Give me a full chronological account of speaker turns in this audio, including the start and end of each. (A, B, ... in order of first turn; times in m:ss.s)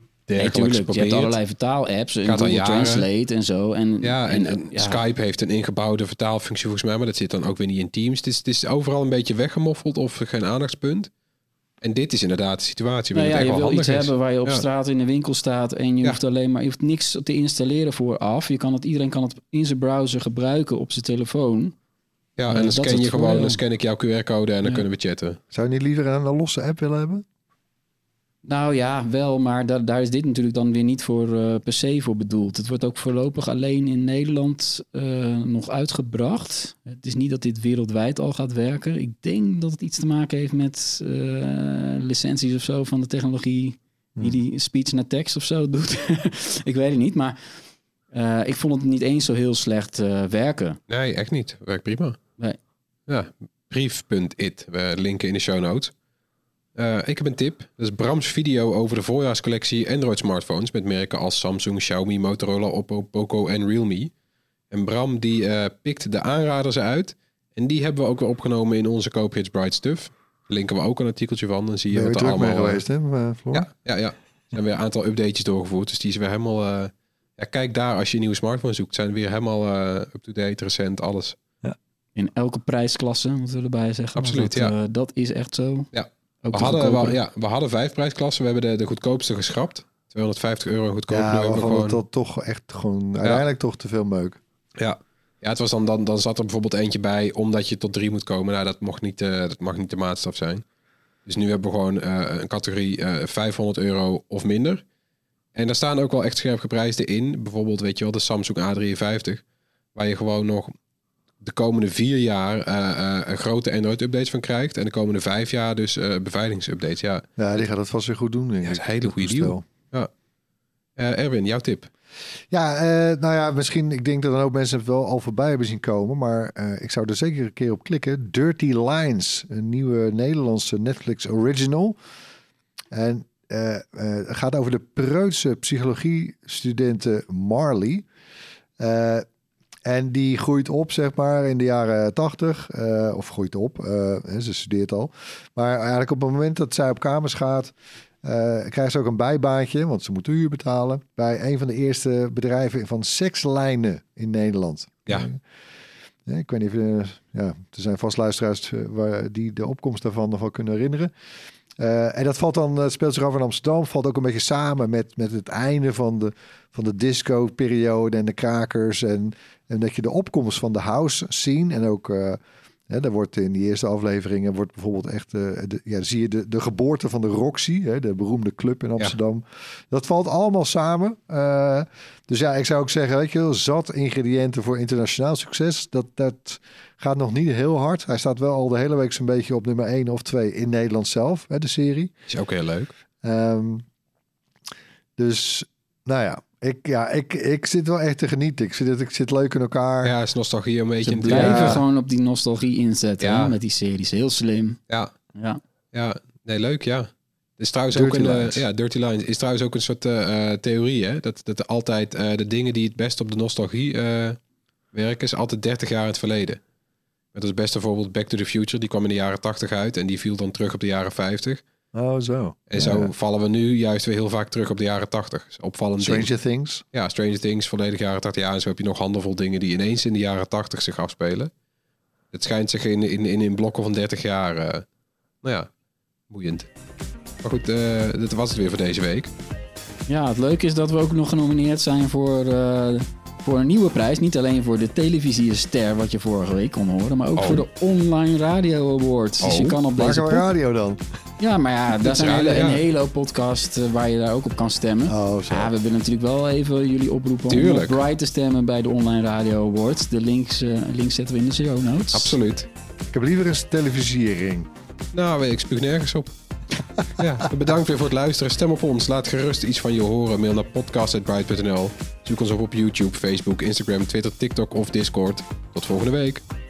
0:00.3-0:01.4 A
0:00.4-0:05.0 B
0:02.2-0:03.1 A
0:04.0-0:11.1 A
0:11.8-0:14.6 A
0:13.1-0:21.8 B
0:22.4-0:25.4 A
0:22.5-0:23.6 B
0:25.5-0:27.2 C
0:28.4-0:50.8 B
0:50.9-0:52.2 A
0:53.1-0:55.9 A
0:56.8-1:04.1 A
1:04.7-1:12.8 A
1:11.9-1:13.7 C
1:13.5-1:21.4 A
1:22.2-1:25.9 B
1:24.2-1:24.7 A
1:25.9-1:32.0 A
1:26.4-1:27.2 B
1:31.1-1:34.4 C
1:34.8-1:40.6 A
1:41.3-1:44.8 A
1:45.6-1:49.4 A
1:50.0-1:50.7 A
1:51.4-1:57.2 A
1:57.4-1:59.6 C
1:58.6-2:00.1 A
2:01.0-2:01.9 A
2:02.5-2:12.0 C
2:12.9-2:18.1 C
2:18.8-2:19.3 C
2:19.8-2:35.4 C
2:36.3-2:41.1 C
2:41.8-3:12.1 C
3:12.3-3:12.9 A
3:13.2-3:13.8 C
3:15.2-3:20.1 C
3:20.0-3:21.8 A
3:21.0-3:21.8 C
3:21.3-3:24.8 B
3:23.2-3:23.6 A
3:25.4-3:25.6 B
3:25.9-3:34.4 A
3:27.9-3:28.6 C
3:34.9-3:36.6 A
3:37.3-3:41.6 A
3:41.9-3:43.1 C
3:42.7-3:46.3 A
3:46.0-3:46.8 C
3:46.9-3:51.5 A
3:52.3-3:54.8 A
3:55.4-3:55.7 A
3:56.3-3:56.7 A
3:57.4-3:59.3 A
4:00.1-4:10.5 B
4:07.4-4:07.6 A
4:09.4-4:09.8 A
4:09.9-4:11.0 C
4:11.4-4:22.4 B
4:12.0-4:12.8 A
4:15.1-4:15.7 C
4:17.5-4:18.0 A
4:22.1-4:22.7 A
4:23.1-4:24.7 C
4:25.1-4:26.3 A
4:27.2-4:36.4 A